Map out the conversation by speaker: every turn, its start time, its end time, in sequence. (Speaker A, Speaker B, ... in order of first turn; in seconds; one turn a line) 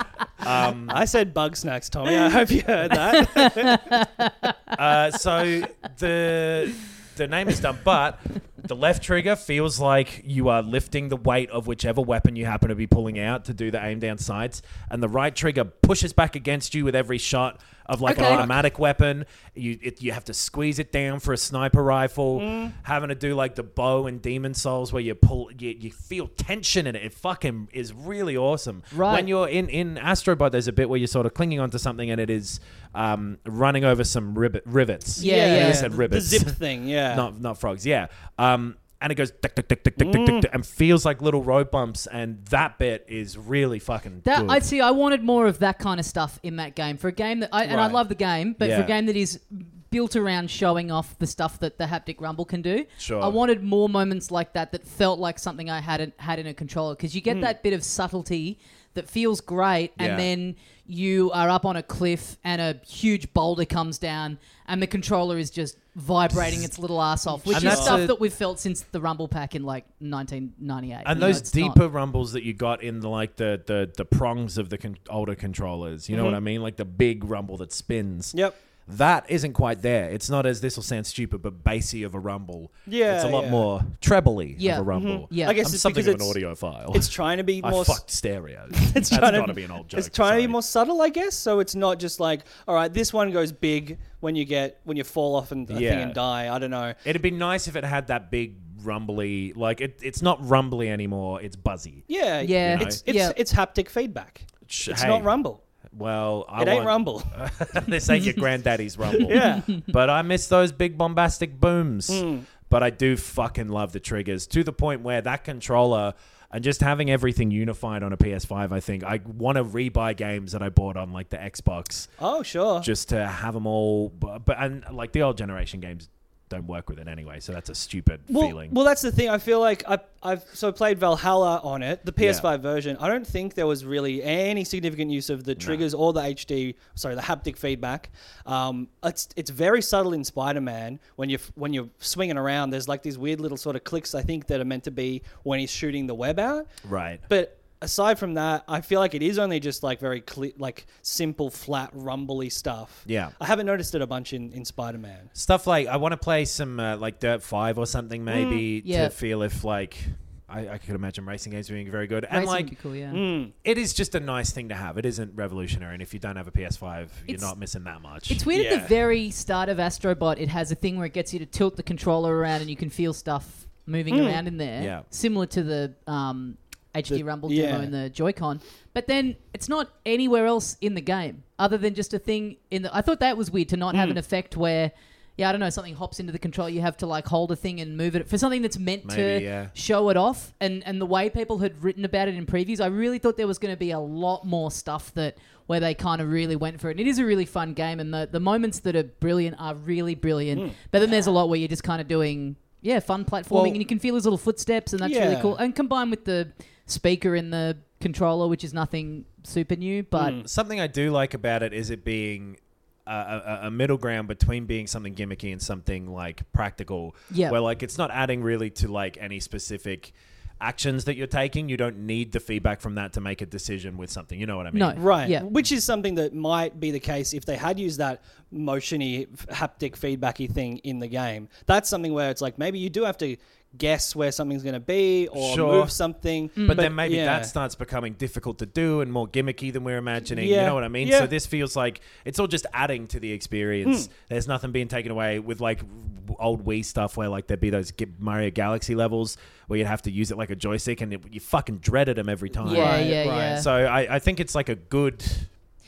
Speaker A: 0.4-1.0
Speaker B: 0.9-3.9
Speaker C: 3.1-4.5
Speaker A: 4.7-36.5
Speaker C: 18.0-18.5
Speaker B: 18.1-18.6
Speaker B: 22.3-22.7
Speaker C: 28.9-29.3
Speaker C: 35.2-36.0
Speaker B: 35.2-37.3
Speaker A: 37.1-44.6
Speaker B: 40.0-40.5
Speaker C: 44.2-71.8
Speaker A: 47.7-48.0
Speaker A: 48.6-48.9
Speaker A: 53.0-53.4
Speaker A: 60.0-60.3
Speaker B: 67.4-68.0
Speaker A: 67.5-68.1
Speaker A: 71.0-90.5
Speaker B: 71.1-71.4
Speaker B: 76.1-76.4
Speaker B: 82.8-83.7
Speaker C: 84.6-85.6
Speaker B: 84.9-86.4
Speaker B: 86.9-88.0
Speaker B: 88.7-97.0
Speaker A: 95.7-96.2
Speaker A: 97.0-102.1
Speaker B: 102.1-105.6
Speaker C: 102.4-103.3
Speaker A: 102.6-103.0
Speaker A: 104.7-105.3
Speaker A: 105.9-122.1
Speaker B: 106.6-107.3
Speaker B: 109.2-109.8
Speaker B: 112.1-112.5
Speaker B: 122.2-122.9
Speaker A: 122.8-128.8
Speaker B: 128.3-155.3
Speaker A: 132.2-132.5
Speaker A: 135.6-135.8
Speaker A: 146.8-147.2
Speaker A: 153.1-153.3
Speaker A: 155.3-162.7
Speaker B: 158.3-158.7
Speaker C: 158.8-159.1
Speaker C: 162.3-163.2
Speaker B: 163.1-163.5
Speaker A: 163.6-168.4
Speaker C: 168.3-210.4
Speaker B: 168.5-168.9
Speaker B: 174.1-174.4
Speaker A: 174.8-175.0
Speaker B: 177.1-177.9
Speaker B: 183.9-184.2
Speaker A: 189.0-189.7
Speaker B: 203.5-203.8
Speaker B: 205.0-205.6
Speaker B: 210.2-210.4
Speaker A: 210.4-225.0
Speaker C: 217.3-217.6
Speaker C: 224.7-225.5
Speaker B: 224.9-237.5
Speaker A: 235.3-235.9
Speaker C: 236.6-236.9
Speaker A: 236.6-255.5
Speaker B: 240.3-241.3
Speaker B: 243.8-244.1
Speaker B: 252.6-253.6
Speaker C: 252.6-253.7